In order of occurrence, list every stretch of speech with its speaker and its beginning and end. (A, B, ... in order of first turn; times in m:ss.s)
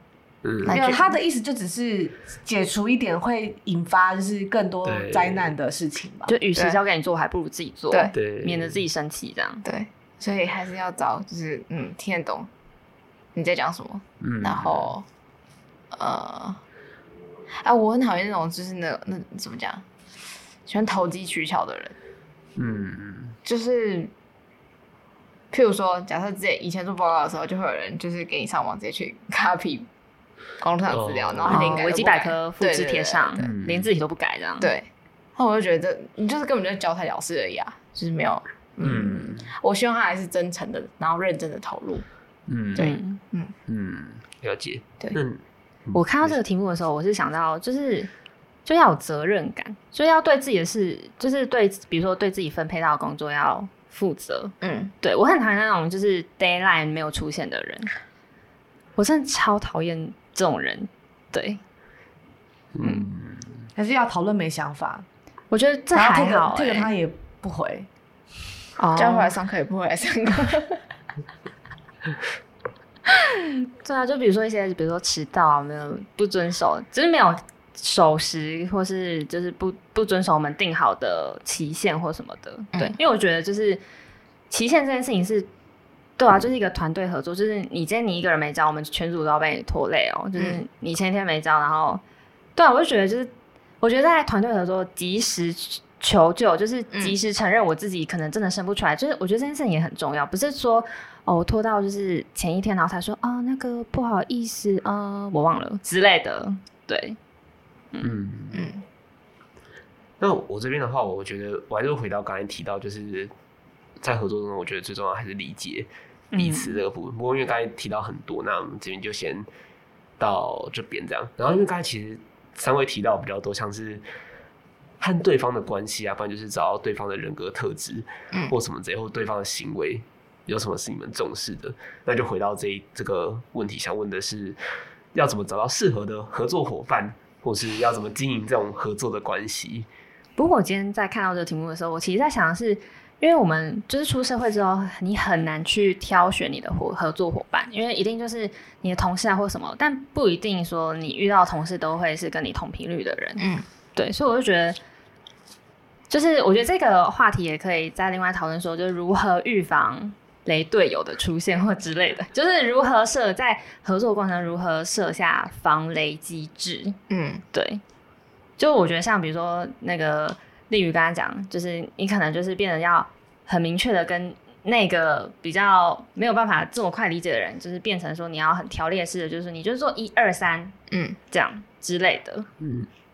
0:00.4-0:00.8 A
0:00.6-0:01.2 B
0:00.7-0:06.3 C
0:04.8-0:05.6 A
0:06.3-0:09.6 D
0:08.1-0:08.8 A
0:09.6-0:12.5 B
0:13.3-0:15.0 B
0:14.2-0:14.9 A
0:15.9-0:16.6 B
0:17.6-0:19.8 B
0:20.7-0:22.0 B
0:22.6-0:23.4 A
0:23.4-0:24.1 B
0:25.5-0:29.9 B
0:30.6-0:33.5 B
0:30.9-0:31.8 A
0:31.5-0:34.7 D
0:33.4-0:33.9 A
0:34.6-0:42.0 B
0:38.8-0:39.5 A
0:42.5-0:42.9 A
0:42.7-0:43.5 B
0:42.8-0:43.2 D
0:43.7-0:46.4 A
0:45.9-0:48.1 D
0:48.6-0:57.9 D
0:54.6-0:54.9 B
0:59.0-1:01.6 D
1:02.7-1:03.7 A
1:03.7-1:05.0 C
1:05.5-1:06.9 D
1:05.9-1:07.9 C
1:08.8-1:09.3 D
1:09.0-1:10.8 B
1:13.2-1:23.8 D
1:24.5-1:25.5 D
1:26.2-1:32.0 D
1:32.6-1:47.2 D
1:48.0-1:48.7 A
1:48.5-1:48.8 B
1:50.2-1:53.3 A
1:54.0-1:59.5 A
1:56.3-1:56.8 D
2:00.2-2:04.0 A
2:05.0-2:14.6 A
2:15.1-2:19.9 A
2:20.4-2:34.8 D
2:33.4-2:33.6 B
2:36.1-2:47.0 D
2:47.1-2:47.4 B
2:47.5-2:47.8 D
2:48.6-3:00.8 D
3:00.9-3:01.2 B
3:01.3-3:02.5 D
3:02.6-3:02.9 A